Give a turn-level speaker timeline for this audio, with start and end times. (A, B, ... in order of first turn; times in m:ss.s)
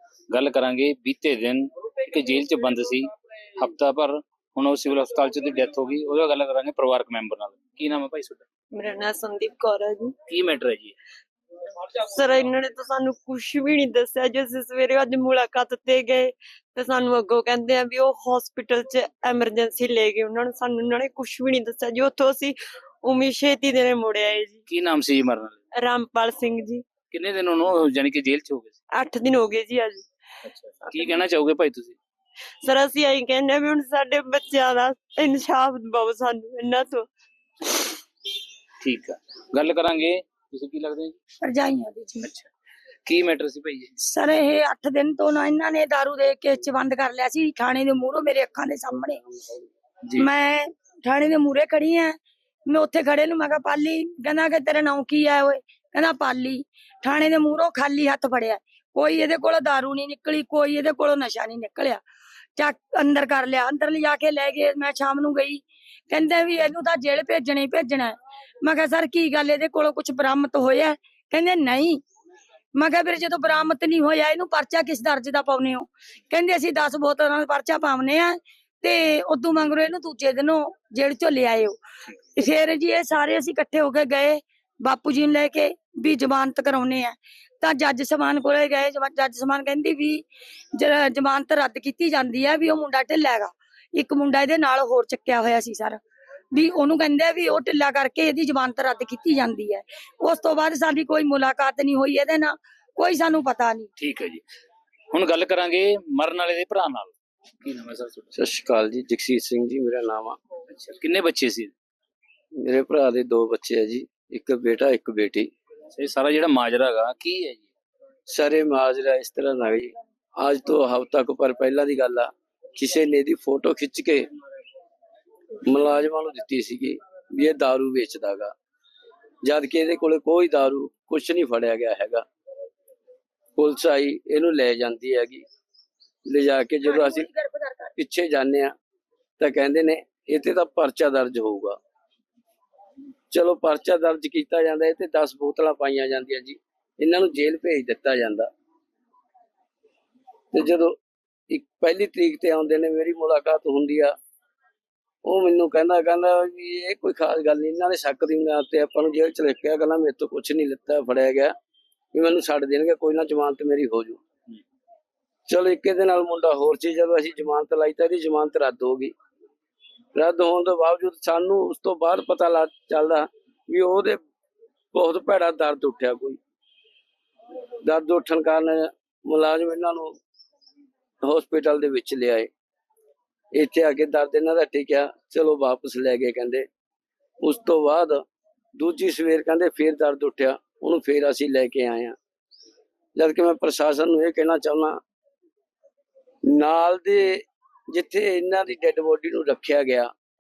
0:00.3-0:08.4 A
0:08.7-0:10.1 B
0:10.3-0:11.0 A
0:11.9-0:24.6 B
0:24.7-0:25.6 A
0:25.8-0:26.8 B
0:27.1-0:28.8 A
0:28.9-0:30.0 B
0:30.5-0:32.0 A
0:32.6-0:37.1 B
0:38.8-0:41.2 A
0:41.4-0:42.3 C
0:43.1-0:43.9 A
0:44.0-0:49.2 C
0:50.2-1:02.0 C
1:02.6-1:12.0 C
1:12.8-1:21.8 C
1:22.4-1:36.0 C
1:36.5-1:43.9 C
1:44.0-1:44.4 A
1:45.1-1:48.3 A
1:48.3-1:50.4 D
1:50.7-1:51.7 A
1:52.6-1:55.5 D
1:55.9-1:57.7 A
1:58.3-2:04.3 D
2:05.7-2:08.5 D
2:09.4-2:12.2 D
2:13.6-2:15.4 D
2:16.3-2:17.3 D
2:16.8-2:17.9 C
2:18.0-2:18.7 D
2:19.4-2:21.8 D
2:23.3-2:28.5 D
2:30.5-2:31.0 D
2:31.5-2:34.2 D
2:35.2-2:41.5 D
2:42.1-2:44.2 D
2:45.5-2:49.1 D
2:50.2-2:54.2 D
2:54.9-2:56.4 D
2:57.8-3:00.1 D
3:01.2-3:02.5 D
3:03.5-3:06.7 D
3:07.4-3:08.2 D
3:08.8-3:12.2 D
3:13.2-3:15.0 D
3:16.5-3:20.1 D